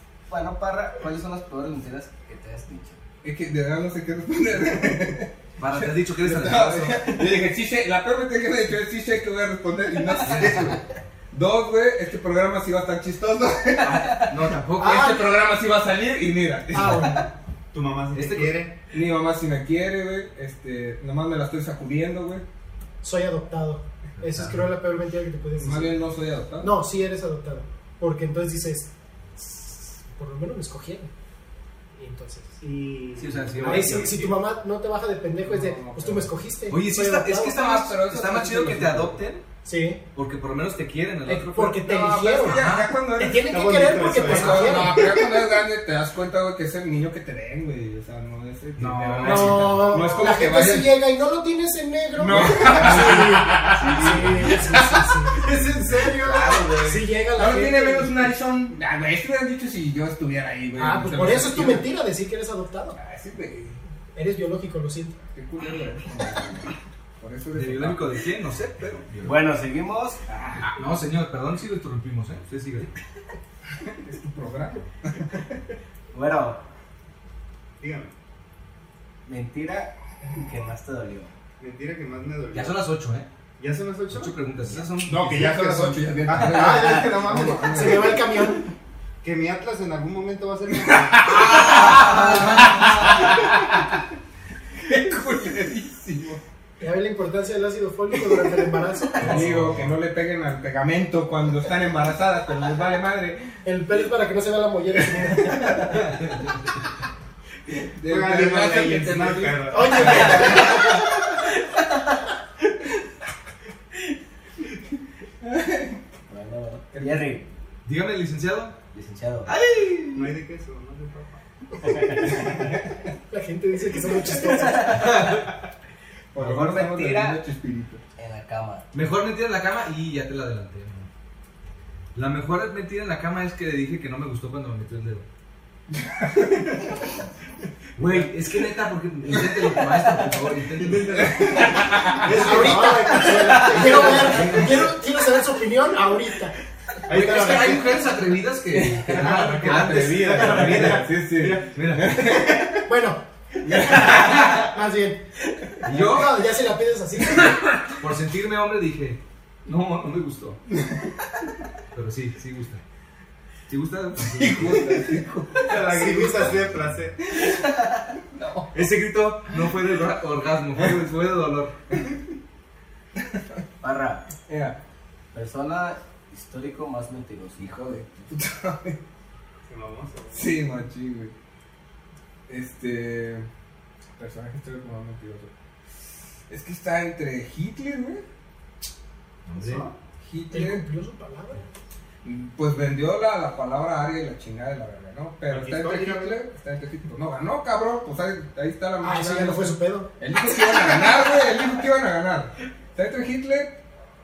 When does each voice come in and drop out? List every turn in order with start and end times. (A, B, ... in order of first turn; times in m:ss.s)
0:00.3-0:03.0 A
0:03.2-0:17.2 B
0:05.6-0:07.2 C
0:10.3-0:10.6 C
0:13.8-0:15.1 C
0:14.8-0:15.1 D
0:16.7-0:17.2 D
0:17.7-0:18.7 E
0:18.1-0:18.5 C
0:18.9-0:22.4 B
0:23.0-0:26.0 D
0:25.6-0:26.7 B
0:26.6-0:31.1 D
0:32.0-0:32.6 D
0:32.6-0:34.3 E
0:33.2-0:34.3 C
0:33.6-0:37.6 D
0:35.4-0:36.3 B
0:36.7-0:39.4 C
0:37.5-0:39.2 B
0:39.6-0:40.0 D
0:40.1-0:43.0 C
0:41.2-0:45.1 D
0:41.8-0:50.9 B
0:43.4-0:45.4 E
0:48.8-0:50.2 C
0:49.2-0:55.4 D
0:52.2-0:56.8 B
0:52.3-0:52.7 C
0:53.8-0:54.5 C
0:55.3-0:57.0 E
0:56.6-0:58.3 D
0:57.3-1:01.9 B
1:00.8-1:03.0 D
1:03.0-1:03.8 B
1:04.1-1:05.2 D
1:05.3-1:08.1 B
1:07.5-1:09.4 C
1:09.2-1:10.2 A
1:10.3-1:10.7 B
1:10.6-1:12.9 C
1:13.8-1:15.4 B
1:16.1-1:16.6 A
1:17.8-1:18.1 E
1:19.2-1:21.3 A
1:21.6-1:22.8 E
1:22.5-1:23.3 C
1:23.6-1:28.1 E
1:24.1-1:25.7 C
1:25.0-1:28.2 B
1:27.0-1:28.7 D
1:29.2-1:32.6 E
1:30.8-1:33.9 B
1:31.8-1:32.4 C
1:34.8-1:36.4 B
1:36.8-1:39.4 D
1:39.2-1:39.9 C
1:39.2-1:43.6 B
1:43.6-1:46.2 D
1:45.4-1:46.0 B
1:47.8-1:50.7 B
1:48.0-1:50.7 E
1:49.7-1:51.0 D
1:55.4-1:56.0 B
1:56.3-1:57.4 A
1:56.9-1:57.3 B
1:57.8-1:58.8 C
1:58.9-1:59.5 A
1:59.5-2:00.3 C
2:00.1-2:01.8 E
2:01.8-2:02.4 A
2:03.3-2:05.1 D
2:04.5-2:05.3 A
2:04.9-2:05.4 C
2:06.3-2:08.0 B
2:06.4-2:07.4 A
2:08.2-2:08.8 A
2:08.9-2:11.1 C
2:12.1-2:15.2 C
2:15.9-2:17.0 B
2:18.0-2:21.6 C
2:18.0-2:18.3 E
2:20.8-2:24.7 E
2:21.2-2:22.4 B
2:22.3-2:26.5 D
2:23.6-2:24.8 C
2:27.1-2:27.9 E
2:27.1-2:32.4 C
2:28.7-2:32.8 B
2:29.1-2:32.8 E
2:32.8-2:33.2 D
2:33.6-2:34.6 B
2:33.9-2:35.2 D
2:35.8-2:36.4 C
2:35.8-2:37.6 D
2:37.9-2:40.6 C
2:40.7-2:41.1 B
2:41.9-2:42.8 C
2:43.7-2:45.0 C
2:44.2-2:45.7 B
2:45.6-2:47.2 E
2:45.8-2:46.6 D
2:48.3-2:48.7 B
2:48.7-2:51.7 C
2:53.2-2:53.5 B
2:53.8-2:54.2 A
2:54.5-2:54.8 B
2:55.3-2:58.3 A
2:58.3-2:59.0 B
2:59.7-3:00.5 E
3:00.3-3:01.3 B
3:02.5-3:03.5 B
3:04.2-3:05.5 B
3:06.5-3:08.2 B
3:09.4-3:09.8 C
3:09.6-3:09.9 E
3:10.2-3:10.8 B
3:10.5-3:11.6 D
3:12.2-3:23.8 B
3:15.5-3:16.4 E
3:19.0-3:20.1 D